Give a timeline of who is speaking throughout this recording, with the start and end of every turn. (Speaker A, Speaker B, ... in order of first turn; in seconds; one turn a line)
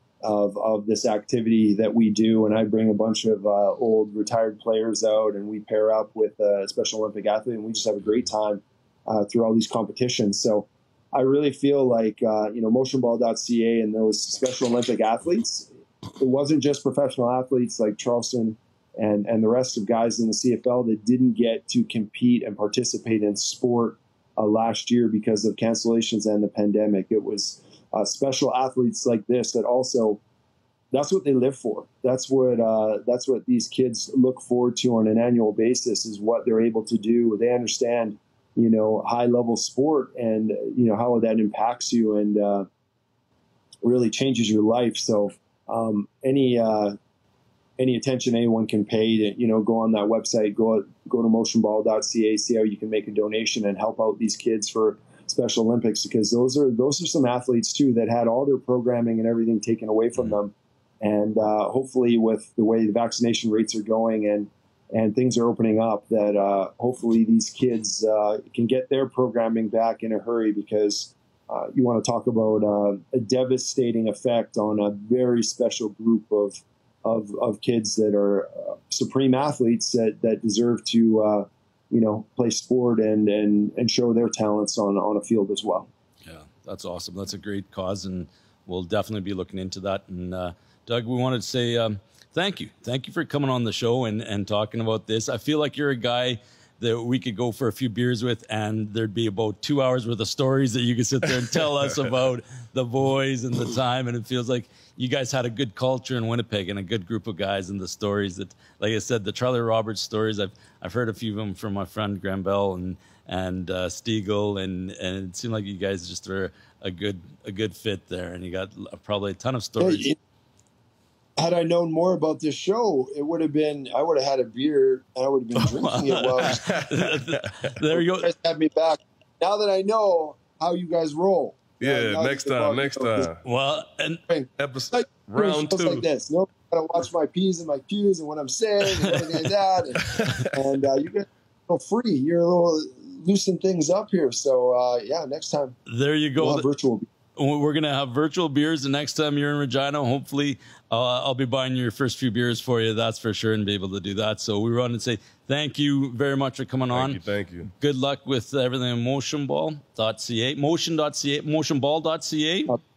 Speaker A: 0.2-30.2
Speaker A: 30.9-42.7
Speaker A: 43.8-47.0
Speaker A: 47.8-85.9
Speaker B: 86.3-120.1
Speaker A: 119.8-120.2
Speaker A: 121.4-126.7
Speaker B: 125.6-128.3
Speaker C: 126.4-127.5
Speaker A: 127.9-133.3
Speaker C: 131.8-133.4
Speaker B: 133.4-134.2
Speaker A: 134.3-145.8
Speaker C: 134.6-136.0
Speaker C: 140.2-140.4
Speaker B: 145.9-146.7
Speaker A: 146.4-147.1
Speaker B: 147.4-157.2
Speaker C: 156.9-157.7
Speaker B: 157.7-162.8